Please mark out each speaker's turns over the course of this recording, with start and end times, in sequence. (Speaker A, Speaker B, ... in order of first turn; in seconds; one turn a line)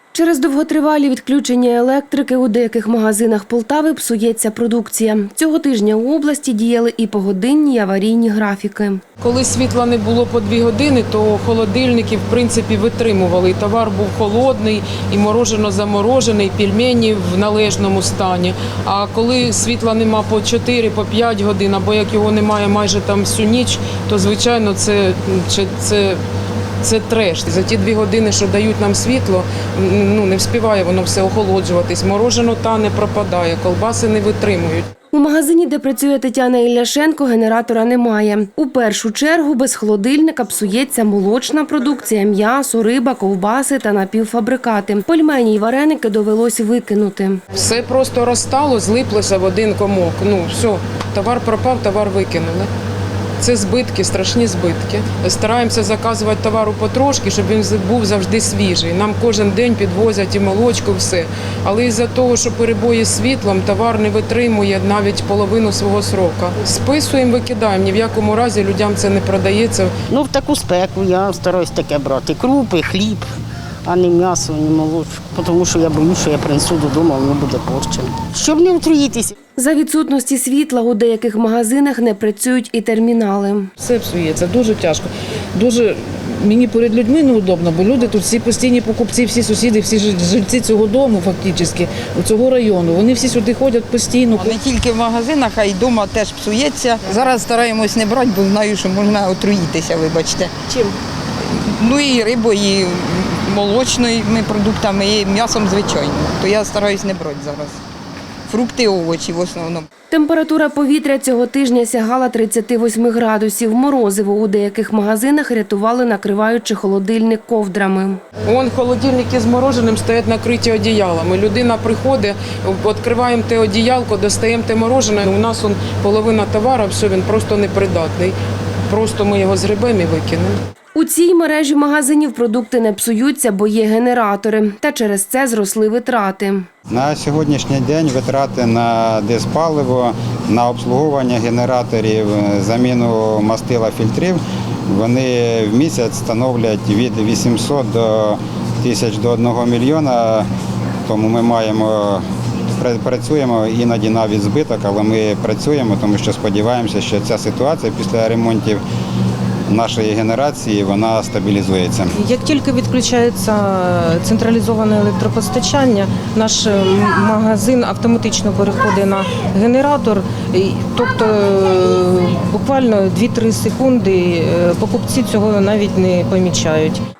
Speaker A: 0.1-9.0
Speaker B: 9.2-26.2
Speaker B: 26.8-34.9
Speaker A: 35.1-47.5
Speaker B: 47.5-52.7
Speaker B: 53.4-69.9
Speaker C: 70.1-73.3
Speaker C: 73.8-79.3
Speaker A: 79.6-83.7
Speaker D: 83.8-94.5
Speaker E: 94.3-100.9
Speaker E: 101.5-107.8
Speaker E: 108.5-109.9
Speaker A: 110.1-118.2
Speaker B: 118.4-128.3
Speaker B: 128.9-130.6
Speaker A: 130.9-136.7
Speaker F: 136.9-150.5
Speaker F: 151.1-152.2
Speaker F: 152.8-158.8
Speaker F: 159.7-162.1
Speaker G: 162.1-177.0